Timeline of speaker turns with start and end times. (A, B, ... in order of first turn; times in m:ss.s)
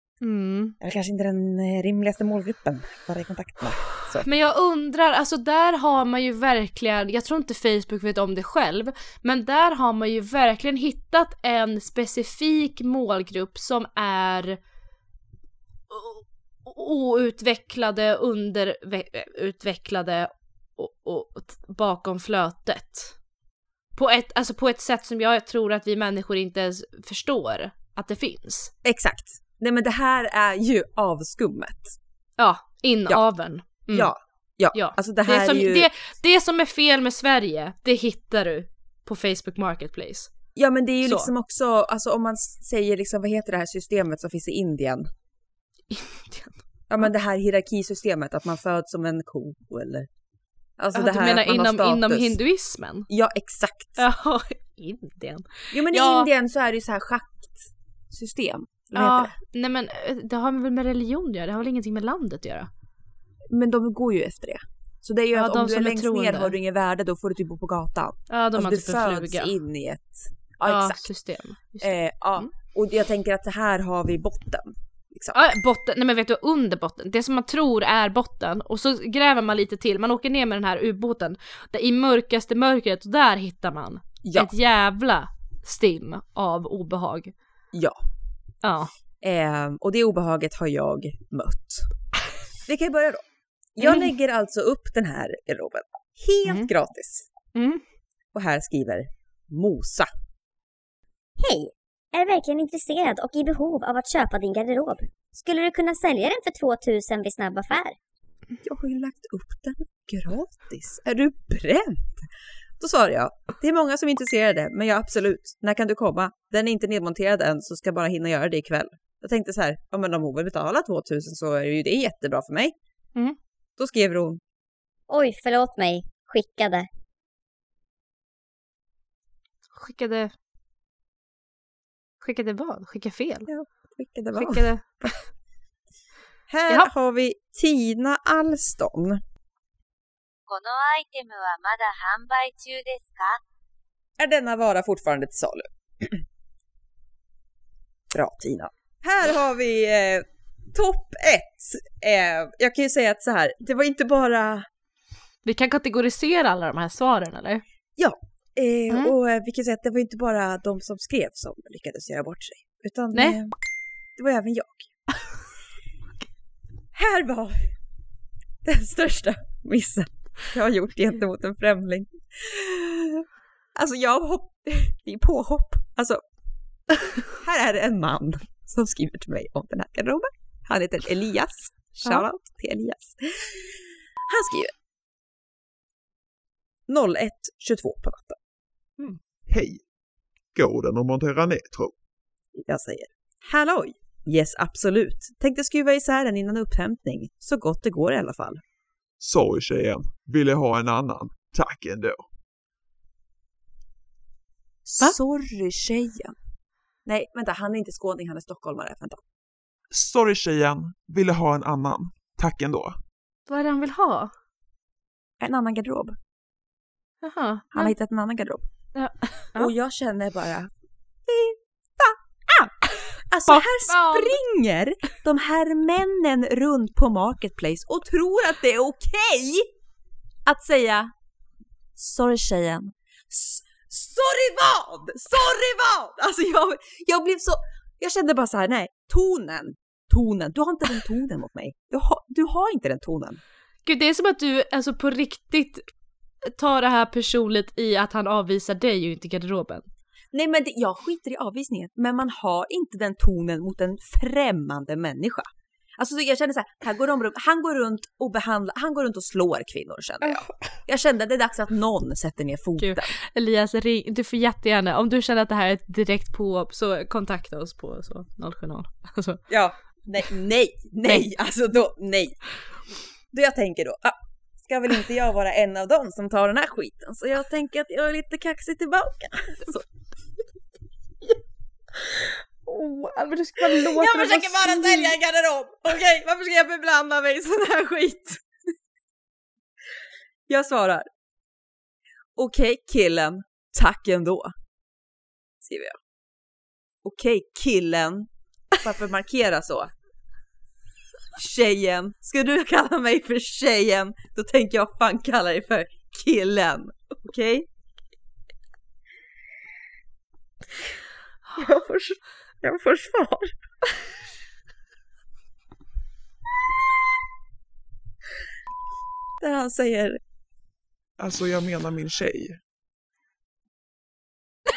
0:00.2-0:00.8 A
0:00.8-0:04.3 B
0:04.2-0:14.6 A
0:15.9-0:23.2 A
0:24.0-0:28.7 A
0:28.8-0:32.0 B
0:32.4-0:34.1 A
0:33.9-0:35.9 B
0:34.7-0:40.3 A
0:40.6-0:45.1 B
0:41.0-0:41.3 A
0:45.9-0:46.6 A
0:46.9-0:50.1 B
0:50.8-0:52.4 B
0:50.9-0:53.1 A
0:53.1-0:54.0 B
0:54.0-0:56.3 A
0:55.7-0:59.3 B
0:59.0-1:02.7 A
1:03.5-1:11.1 B
1:05.4-1:06.6 A
1:08.3-1:09.5 A
1:10.7-1:12.5 A
1:11.8-1:15.4 B
1:15.3-1:27.3 A
1:24.2-1:24.5 B
1:27.7-1:28.0 B
1:28.6-1:28.9 A
1:29.2-1:31.9 B
1:32.7-1:33.2 B
1:33.8-1:37.3 B
1:33.8-1:34.1 A
1:37.6-1:37.8 A
1:38.3-1:40.1 B
1:41.4-1:48.0 C
1:48.6-1:52.3 B
1:52.8-2:02.8 B
2:03.8-2:04.4 B
2:05.1-2:06.9 C
2:09.8-2:10.3 A
2:12.2-2:13.5 A
2:13.5-2:15.1 B
2:14.3-2:15.1 A
2:16.5-2:19.2 B
2:20.5-2:23.4 D
2:24.2-2:26.2 B
2:28.1-2:34.7 B
2:35.4-2:37.6 A
2:38.0-2:43.5 B
2:43.1-2:43.4 A
2:44.2-2:44.9 B
2:46.9-2:47.8 B
2:48.6-2:53.2 B
2:53.8-2:56.2 B
2:57.2-3:03.7 B
3:04.3-3:04.7 B
3:06.9-3:08.4 B
3:09.0-3:09.8 E
3:10.5-3:11.9 E
3:12.6-3:18.6 B
3:19.2-3:22.2 E
3:24.9-3:26.4 B
3:27.1-3:29.2 B
3:29.9-3:33.0 E
3:33.5-3:34.3 A
3:35.4-3:36.2 B
3:37.2-3:37.9 A
3:37.7-3:38.6 B
3:39.0-3:39.7 A
3:39.6-3:40.7 B
3:41.3-3:49.7 B
3:43.5-3:44.4 A
3:50.4-3:51.1 B
3:52.0-4:03.4 B
4:03.8-4:09.8 A
4:10.3-4:23.1 B
4:22.8-4:29.4 A
4:29.5-4:32.4 B
4:33.3-4:39.9 B
4:41.9-4:45.1 A
4:43.8-4:48.4 B
4:50.5-4:51.1 B
4:52.4-4:54.5 B
4:55.6-4:56.0 B
4:57.0-4:59.9 B
5:01.4-5:07.7 B
5:11.6-5:13.5 B
5:19.4-5:20.2 B
5:21.2-5:22.6 E